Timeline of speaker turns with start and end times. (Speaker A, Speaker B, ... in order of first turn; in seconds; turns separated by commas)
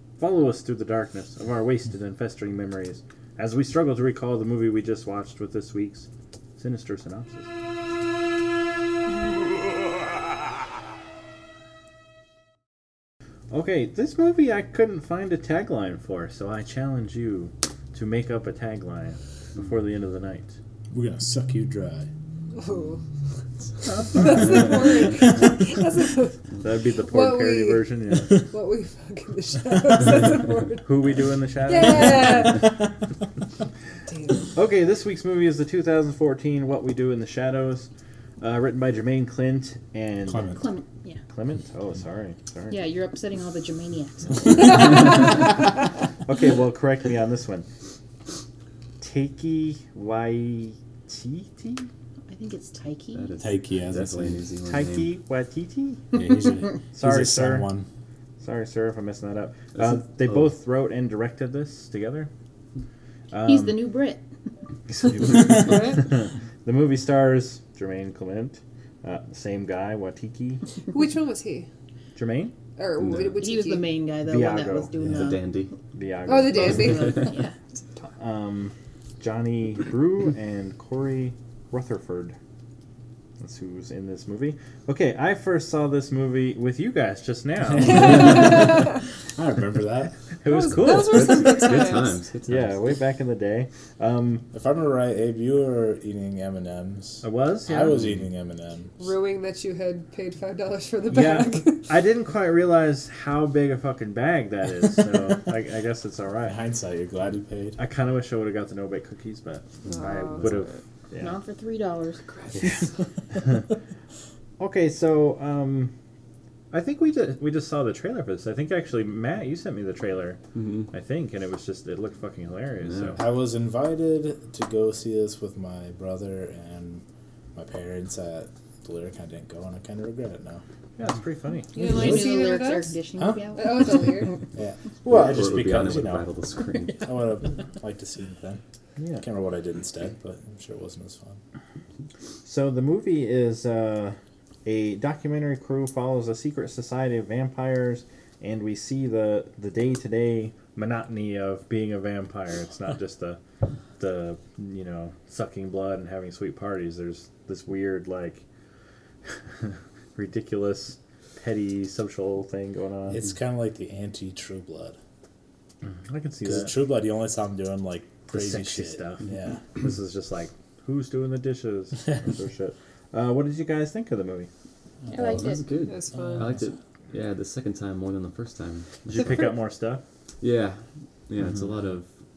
Speaker A: 0.2-7.5, Speaker A: 13.5-20.5, Speaker B: 20.9-22.1, Speaker C: 22.5-23.0, Speaker A: 23.9-24.4, Speaker C: 24.0-26.4, Speaker A: 26.6-28.3, Speaker C: 27.0-27.9, Speaker C: 28.5-30.9, Speaker A: 30.8-32.5, Speaker C: 31.6-32.7, Speaker B: 32.4-32.9, Speaker C: 34.1-34.4, Speaker A: 34.5-37.9, Speaker A: 38.4-40.5, Speaker B: 40.2-40.7, Speaker D: 40.5-41.2, Speaker A: 41.3-42.8, Speaker D: 42.7-45.4, Speaker A: 46.2-47.7, Speaker A: 49.0-51.9, Speaker D: 52.3-53.3, Speaker E: 53.1-55.1, Speaker B: 53.4-54.4, Speaker A: 54.6-56.2, Speaker B: 56.1-57.9, Speaker A: 56.9-57.7, Speaker A: 58.4-62.3, Speaker E: 59.8-60.0, Speaker A: 63.3-63.9, Speaker D: 63.4-64.2, Speaker A: 64.9-70.6, Speaker C: 65.4-66.0, Speaker C: 70.9-71.7, Speaker A: 72.2-72.5, Speaker C: 72.8-73.9, Speaker E: 73.0-73.4, Speaker D: 73.4-75.5, Speaker A: 74.2-74.9, Speaker E: 75.0-75.7, Speaker A: 75.9-77.2, Speaker C: 76.3-77.3, Speaker D: 76.5-77.5, Speaker A: 78.2-82.3, Speaker A: 83.4-88.6, Speaker B: 87.8-88.8, Speaker C: 87.8-89.0, Speaker B: 89.3-90.1, Speaker A: 90.4-94.5, Speaker C: 90.5-92.2, Speaker E: 90.8-92.9, Speaker B: 94.5-98.9, Speaker A: 97.2-98.1, Speaker C: 99.0-101.9, Speaker A: 101.1-106.6, Speaker B: 106.4-107.8, Speaker A: 107.8-111.4, Speaker E: 109.8-110.6, Speaker C: 109.9-110.8, Speaker D: 111.2-112.2, Speaker A: 112.6-113.7, Speaker A: 114.6-115.9, Speaker A: 116.7-120.4, Speaker E: 120.5-120.9, Speaker A: 120.9-123.2, Speaker B: 123.2-127.0, Speaker B: 127.5-130.6, Speaker A: 131.0-131.7, Speaker C: 131.7-132.9, Speaker D: 131.7-134.2, Speaker C: 133.5-134.3, Speaker B: 134.5-136.3, Speaker E: 135.1-137.1, Speaker B: 137.0-138.6, Speaker A: 139.0-139.2, Speaker B: 139.2-141.4, Speaker A: 142.4-153.4, Speaker A: 154.0-158.4, Speaker A: 159.6-163.2, Speaker B: 163.1-165.0, Speaker A: 165.8-166.7, Speaker B: 166.4-169.6, Speaker A: 168.3-169.2, Speaker A: 169.7-174.5, Speaker B: 175.0-176.7, Speaker D: 175.1-175.7, Speaker E: 175.4-179.1, Speaker C: 175.8-176.6, Speaker A: 179.1-180.0, Speaker C: 179.2-179.5, Speaker E: 180.4-182.1